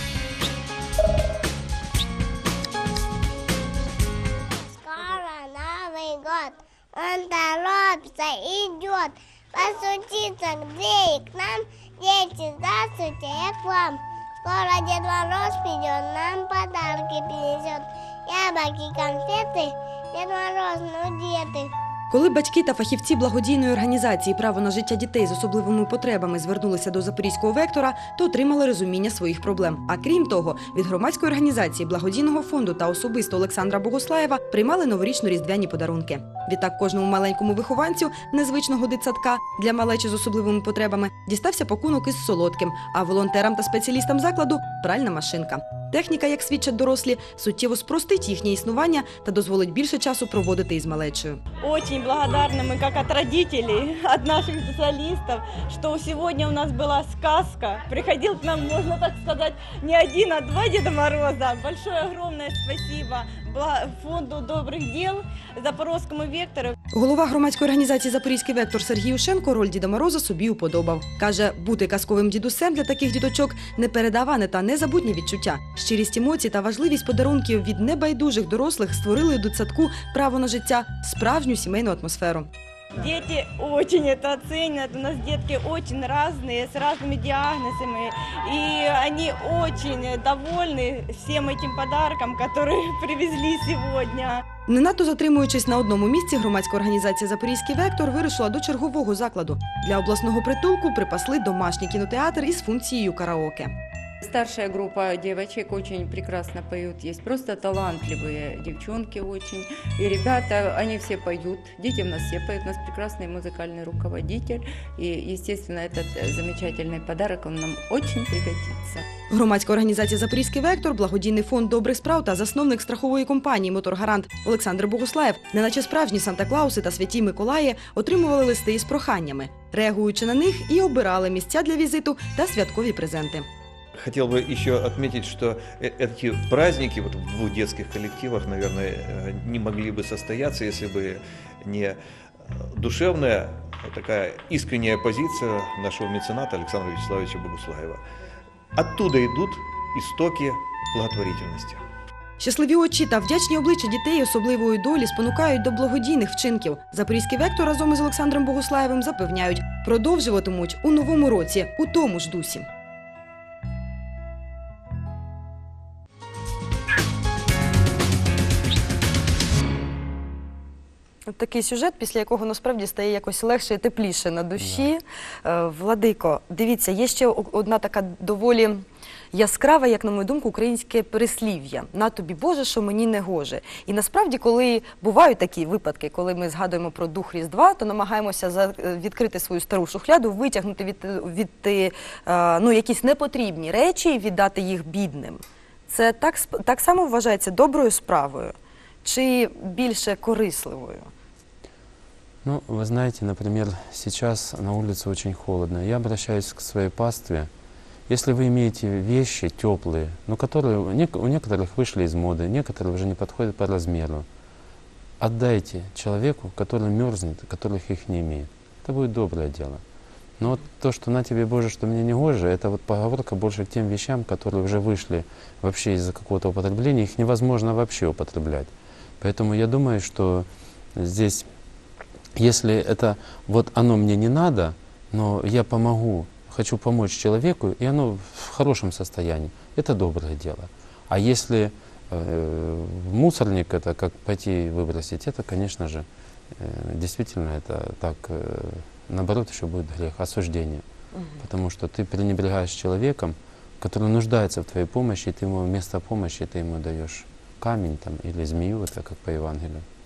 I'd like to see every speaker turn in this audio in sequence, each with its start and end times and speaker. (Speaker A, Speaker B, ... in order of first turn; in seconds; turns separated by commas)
Speaker A: 4.6-21.7, Speaker B: 22.1-51.4, Speaker C: 51.6-66.8, Speaker B: 66.9-82.5, Speaker C: 83.0-94.4, Speaker B: 94.7-103.7, Speaker D: 104.2-119.0, Speaker B: 119.3-133.5, Speaker E: 133.9-142.0, Speaker E: 142.5-148.0, Speaker E: 148.8-151.8, Speaker B: 152.4-162.7, Speaker B: 171.3-198.5, Speaker F: 174.6-174.9, Speaker B: 199.0-201.1, Speaker F: 202.4-207.5, Speaker F: 208.1-214.3, Speaker F: 215.2-219.8, Speaker F: 220.4-231.5, Speaker F: 232.4-250.8, Speaker B: 251.1-251.4, Speaker F: 251.4-259.9